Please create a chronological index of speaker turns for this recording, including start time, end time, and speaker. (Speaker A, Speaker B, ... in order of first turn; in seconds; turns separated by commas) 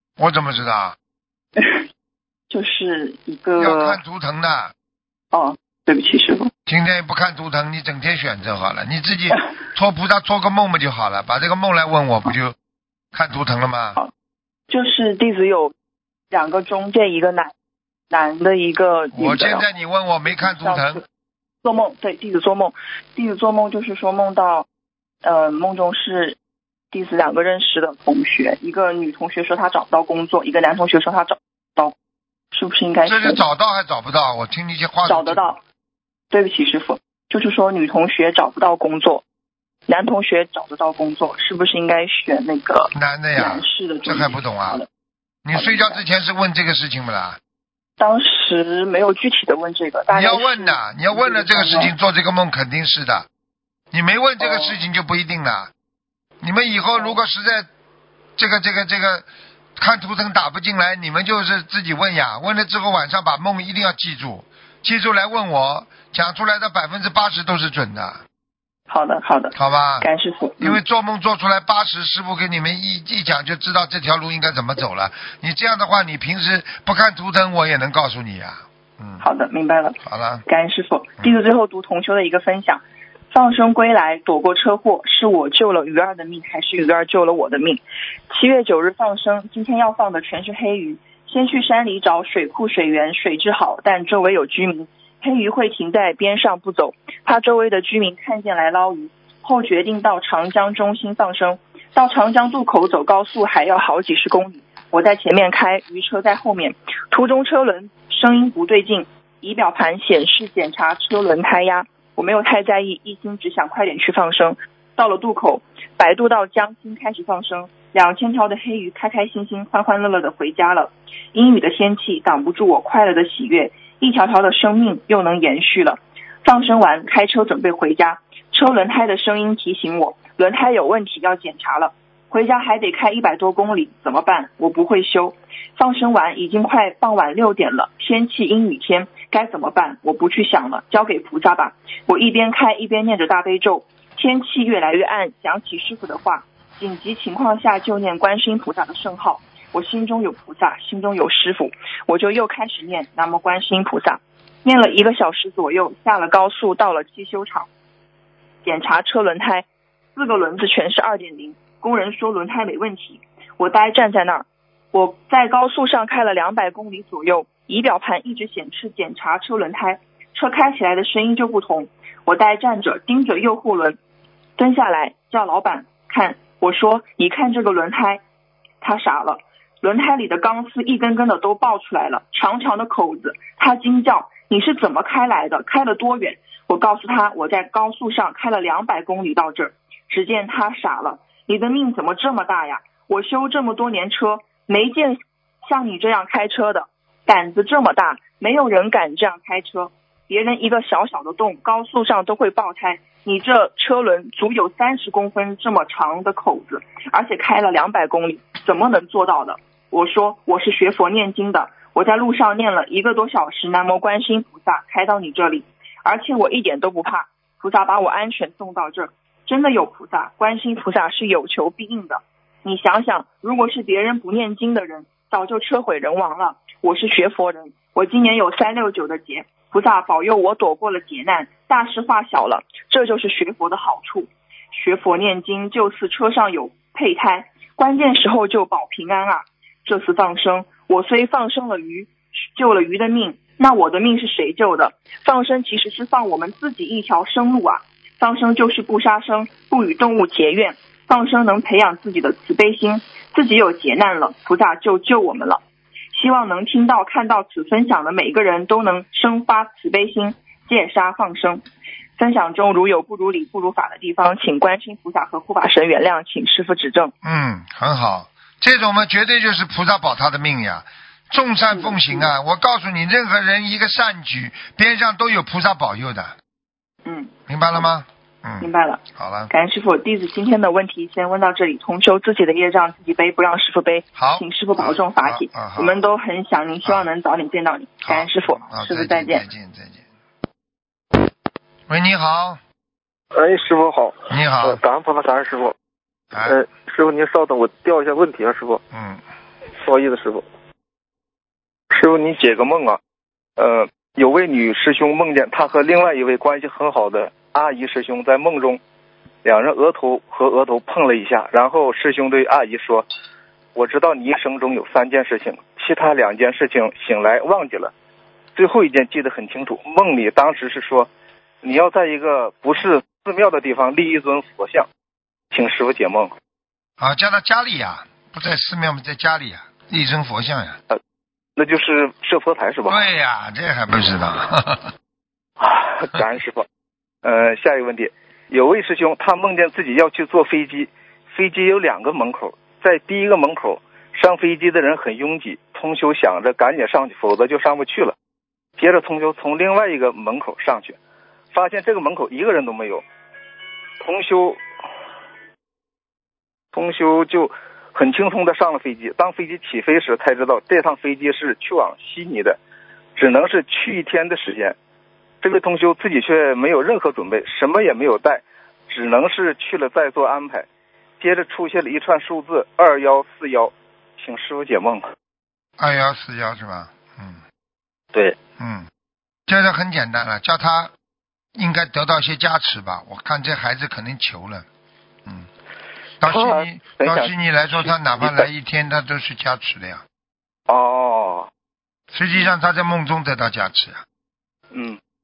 Speaker A: 0.2-1.0, Speaker B: 1.6-1.8, Speaker B: 2.5-4.0, Speaker A: 3.6-4.7, Speaker B: 5.3-6.5, Speaker A: 6.7-12.6, Speaker A: 13.1-14.0, Speaker B: 14.7-15.7, Speaker B: 16.3-17.5, Speaker B: 18.1-19.6, Speaker A: 19.1-21.0, Speaker B: 20.4-21.0, Speaker B: 21.6-24.7, Speaker B: 25.2-26.4, Speaker B: 26.9-31.9, Speaker B: 32.5-33.4, Speaker A: 33.0-35.5, Speaker B: 35.1-35.6, Speaker B: 36.3-39.2, Speaker B: 39.9-44.9, Speaker A: 42.9-44.8, Speaker A: 45.5-47.4, Speaker B: 45.5-46.0, Speaker B: 48.0-51.9, Speaker A: 50.1-53.3, Speaker A: 53.9-55.7, Speaker B: 54.4-54.8, Speaker A: 56.4-57.7, Speaker A: 58.4-68.2, Speaker B: 68.9-70.8, Speaker A: 69.5-70.1, Speaker A: 70.6-79.2, Speaker B: 79.2-157.7, Speaker A: 80.0-80.4, Speaker B: 158.6-174.0, Speaker B: 174.6-178.2, Speaker B: 178.8-255.6, Speaker B: 256.1-261.6, Speaker B: 262.2-267.1, Speaker A: 267.2-276.4, Speaker B: 271.7-272.3, Speaker B: 277.1-277.9, Speaker A: 277.5-279.5, Speaker B: 278.6-289.4, Speaker A: 284.2-286.1, Speaker A: 288.1-290.1, Speaker A: 291.9-292.6, Speaker C: 293.3-295.8, Speaker A: 294.3-294.8, Speaker A: 296.3-296.6, Speaker C: 296.5-298.8, Speaker A: 298.9-299.2, Speaker C: 299.8-300.5, Speaker C: 301.9-303.0, Speaker C: 303.6-308.8, Speaker C: 309.4-313.1, Speaker C: 313.8-317.9, Speaker C: 318.6-321.1, Speaker C: 321.6-324.9, Speaker C: 325.5-326.3, Speaker A: 327.0-330.8, Speaker C: 331.6-333.0, Speaker A: 332.9-334.9, Speaker C: 335.6-336.7, Speaker C: 337.2-348.1, Speaker C: 348.8-351.0, Speaker C: 351.5-353.0, Speaker C: 354.0-354.6, Speaker C: 356.7-362.6, Speaker C: 363.2-364.8, Speaker C: 365.4-370.7, Speaker C: 371.2-375.1, Speaker A: 375.8-377.4, Speaker A: 378.6-378.9, Speaker A: 379.5-380.9, Speaker A: 381.6-384.7, Speaker A: 386.2-390.0, Speaker C: 386.2-388.5, Speaker C: 390.7-391.5, Speaker A: 392.1-394.0, Speaker C: 394.7-395.0